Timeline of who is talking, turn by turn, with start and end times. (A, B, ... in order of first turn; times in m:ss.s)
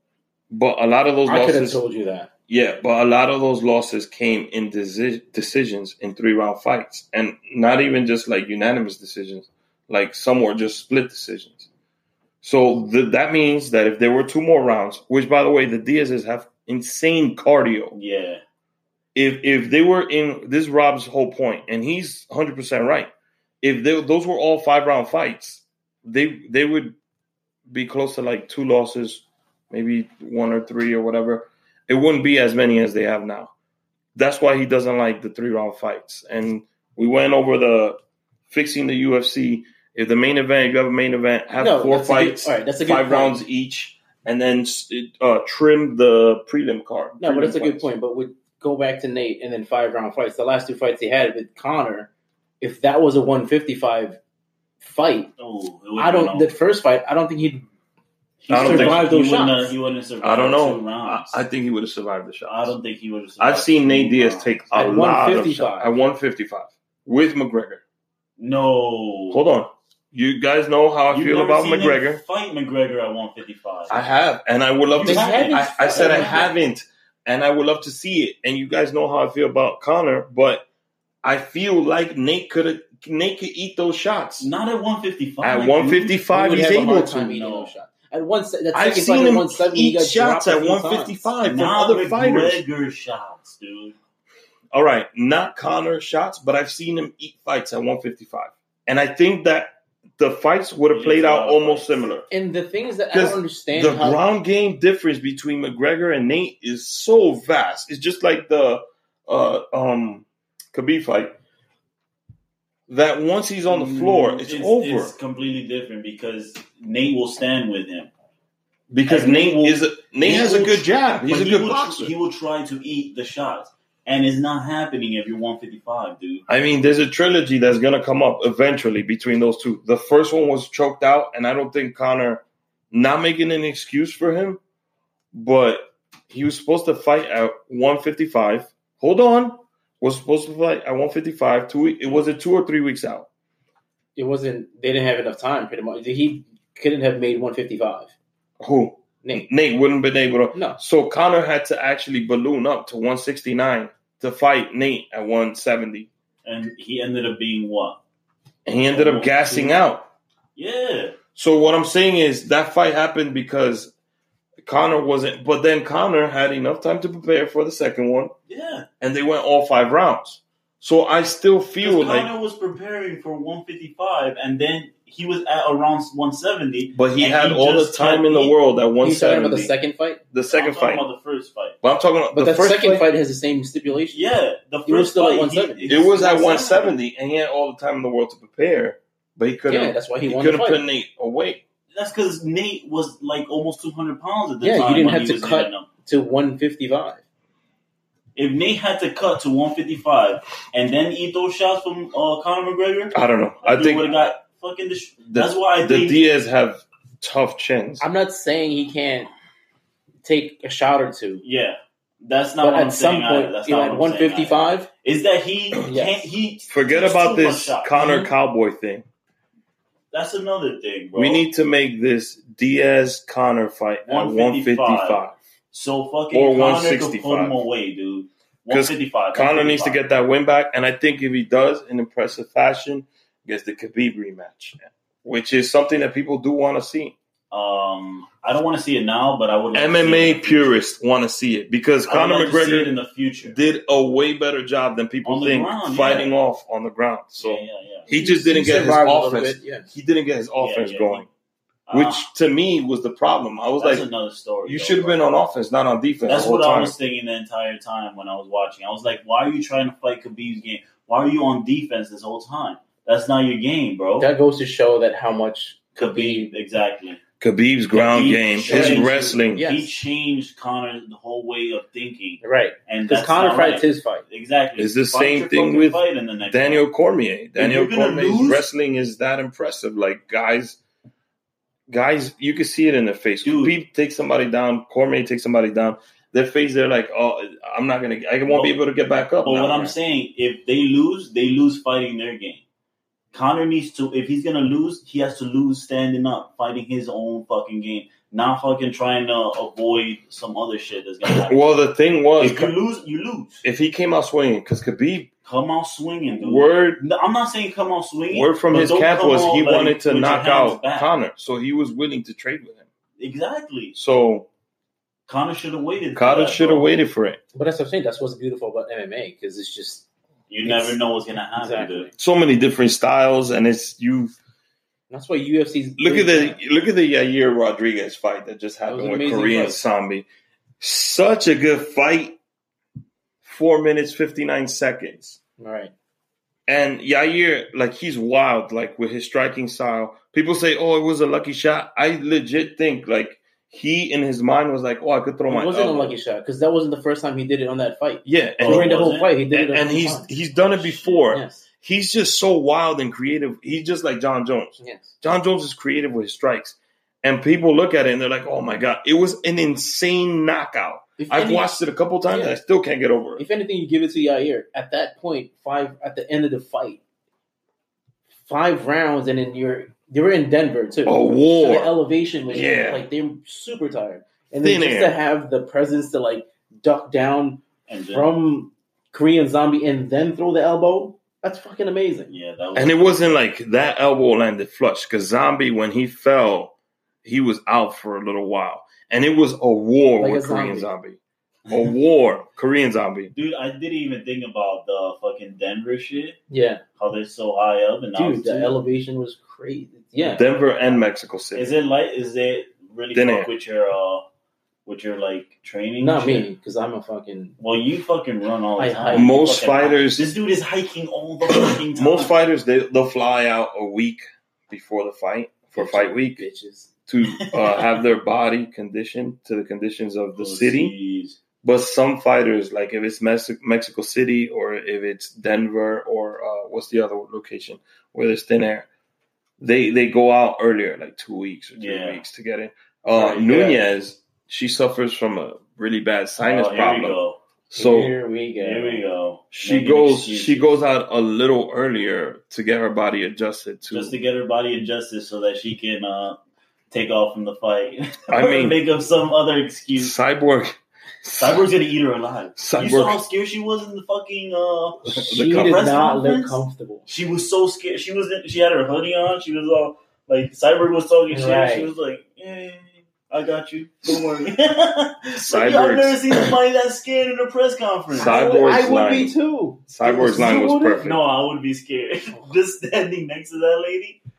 0:00.5-0:01.8 A
0:01.3-0:02.3 B
0:02.5-0:11.7 A
0:12.4-0:18.0 A
0:17.9-0:18.4 C
0:19.2-0:23.1 A
0:23.6-0:27.0 A
0:27.7-0:33.5 A
0:34.2-0:38.0 A
0:38.5-0:47.9 A
0:41.6-0:43.4 B
0:47.2-0:52.1 B
0:52.6-0:54.2 B
0:54.8-0:55.3 B
0:55.4-0:56.5 C
0:56.0-0:57.7 B
0:58.4-1:01.4 C
0:58.5-0:59.0 A
0:58.5-0:59.7 B
1:00.2-1:02.7 A
1:02.5-1:04.7 C
1:03.4-1:07.8 A
1:04.7-1:05.9 B
1:08.4-1:09.4 C
1:09.3-1:12.2 A
1:11.1-1:14.0 C
1:13.9-1:20.6 A
1:14.9-1:16.6 C
1:15.0-1:16.5 B
1:21.2-1:24.5 A
1:24.4-1:26.2 C
1:25.4-1:27.4 A
1:26.3-1:31.3 B
1:27.3-1:27.7 C
1:28.7-1:32.6 A
1:31.4-1:34.0 C
1:34.7-1:42.2 A
1:40.9-1:42.2 C
1:42.3-1:44.2 B
1:43.1-1:51.4 A
1:52.9-1:55.1 A
1:53.7-1:58.1 C
1:58.9-2:02.1 A
1:59.1-2:06.4 C
2:06.5-2:14.6 A
2:15.3-2:23.3 A
2:24.2-2:28.1 B
2:28.6-2:36.1 A
2:30.5-2:30.8 B
2:36.4-2:38.0 C
2:38.6-2:40.1 A
2:38.9-2:39.7 C
2:40.6-2:41.2 C
2:41.4-2:43.9 A
2:44.6-2:48.3 A
2:48.5-2:48.9 C
2:49.0-2:52.3 A
2:51.8-2:58.6 C
2:56.9-2:59.7 A
2:59.0-3:00.2 B
3:00.3-3:01.0 A
3:00.5-3:01.8 C
3:01.8-3:03.1 A
3:02.3-3:04.3 B
3:04.1-3:07.0 C
3:04.9-3:06.1 B
3:05.9-3:11.6 A
3:09.7-3:10.8 B
3:11.9-3:15.9 C
3:14.6-3:17.2 B
3:18.4-3:26.2 C
3:23.1-3:24.3 A
3:25.3-3:28.0 A
3:28.0-3:29.3 B
3:30.2-3:31.4 B
3:31.4-3:38.0 C
3:32.6-3:34.9 B
3:35.8-3:36.2 B
3:36.7-3:39.1 A
3:38.0-3:38.3 B
3:40.1-3:41.4 C
3:41.2-3:45.4 A
3:44.1-3:50.0 C
3:46.3-3:47.6 A
3:48.7-3:57.2 A
3:57.5-4:00.8 C
3:59.7-4:02.9 A
4:02.1-4:03.6 C
4:03.4-4:11.3 A
4:05.2-4:06.3 C
4:07.4-4:08.1 C
4:08.1-4:09.9 B
4:10.6-4:11.3 C
4:11.9-4:12.2 C
4:11.9-4:14.1 A
4:13.8-4:15.2 C
4:14.7-4:17.0 A
4:16.3-4:24.3 C
4:24.2-4:26.5 B
4:26.0-4:27.2 C
4:27.4-4:29.6 A
4:27.9-4:36.9 C
4:28.7-4:29.9 B
4:32.4-4:34.2 B
4:34.8-4:40.8 A
4:37.6-4:38.6 C
4:41.9-4:50.0 A
4:43.4-4:43.8 C
4:48.5-4:48.8 C
4:49.4-4:52.6 C
4:53.3-5:01.6 C
5:01.2-5:02.7 A
5:02.4-5:03.6 C
5:03.6-5:05.3 A
5:05.4-5:11.1 C
5:06.4-5:07.0 A
5:08.3-5:12.9 A
5:13.2-5:14.0 C
5:14.0-5:14.5 A
5:15.3-5:17.0 C
5:16.2-5:17.4 A
5:17.5-5:20.1 B
5:20.5-5:22.1 C
5:20.6-5:21.0 B
5:21.6-5:22.1 B
5:22.2-5:24.3 A
5:25.1-5:26.6 B
5:26.0-5:30.3 A
5:28.9-5:29.8 B
5:30.8-5:32.4 A
5:33.4-5:35.4 A
5:35.6-5:35.9 B
5:36.7-5:46.2 A
5:45.5-5:50.4 B
5:48.2-5:48.9 A
5:48.6-5:49.3 C
5:49.5-6:03.4 A
5:50.8-5:51.1 C
5:51.1-5:51.6 B
5:54.8-5:55.1 B
6:01.2-6:01.7 B
6:02.3-6:02.6 B
6:03.4-6:07.0 B
6:08.4-6:22.3 B
6:11.0-6:11.9 A
6:12.5-6:13.0 A
6:14.6-6:15.2 A
6:17.9-6:18.3 C
6:22.3-6:23.4 C
6:22.8-6:33.3 A
6:30.2-6:30.9 B
6:33.3-6:36.4 C
6:36.5-6:36.8 B
6:37.0-6:38.8 C
6:38.2-6:40.5 B
6:40.2-6:41.7 A
6:41.6-6:44.2 C
6:43.1-6:43.5 A
6:44.9-6:46.5 C
6:46.0-6:47.6 B
6:47.6-6:52.3 C
6:48.8-6:49.4 B
6:49.1-6:50.3 A
6:51.4-6:56.5 A
6:55.8-6:56.9 B
6:57.1-7:01.0 A
6:57.3-6:58.0 C
7:00.4-7:01.4 C
7:01.6-7:08.9 A
7:09.6-7:17.2 A
7:11.8-7:12.2 C
7:13.2-7:13.8 C
7:13.2-7:13.8 B
7:16.4-7:17.4 C
7:17.7-7:18.2 A
7:17.7-7:19.0 B
7:18.6-7:20.7 C
7:19.5-7:24.2 A
7:23.9-7:26.4 C
7:26.9-7:30.2 C
7:28.3-7:28.8 A
7:30.0-7:31.6 A
7:31.4-7:48.4 C
7:32.6-7:33.2 A
7:35.1-7:35.8 A
7:35.3-7:37.1 B
7:41.3-7:41.9 B
7:45.4-7:46.6 A
7:48.1-7:49.3 A
7:48.2-7:51.1 B
7:49.9-7:51.2 A
7:51.0-7:54.2 C